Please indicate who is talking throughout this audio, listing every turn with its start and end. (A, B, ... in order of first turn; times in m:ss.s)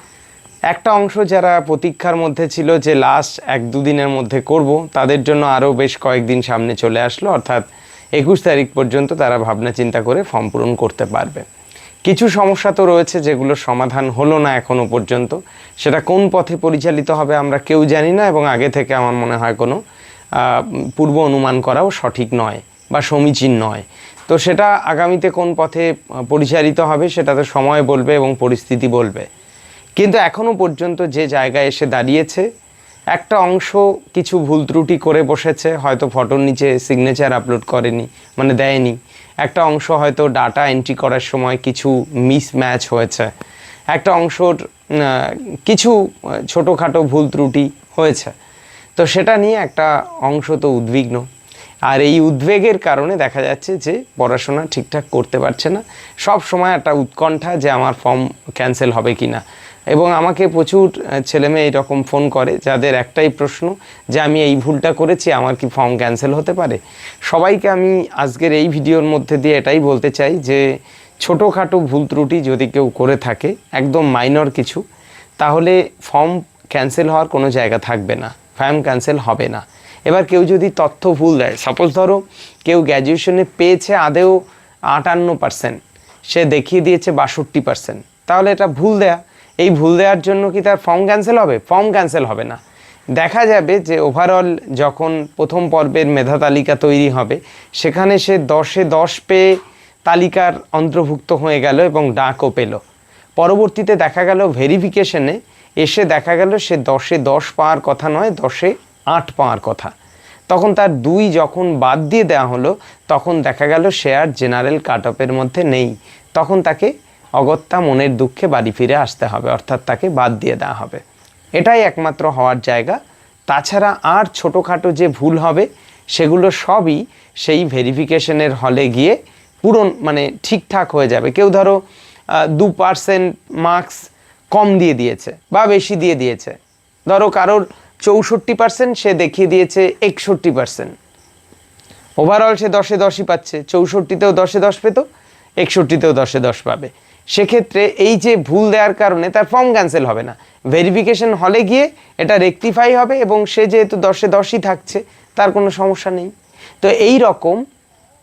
0:00.7-0:07.6 A
0:08.2-0:11.4 A
0:12.0-0:19.8 A
0:20.4-0:29.3 A
0:30.0-0:32.5 A
0:33.1-0:43.3 A
0:43.9-0:48.3 A
0:49.0-0:51.2 A
0:51.9-1:10.6 A
1:11.2-1:14.8 A
1:15.4-1:32.6 A
1:33.1-1:39.5 A
1:40.0-1:42.8 A
1:43.4-1:49.9 A
1:50.5-2:01.0 A
2:01.6-2:11.8 A
2:12.3-2:16.6 A
2:17.1-2:20.9 A
2:22.2-2:25.0 A
2:25.6-2:37.6 A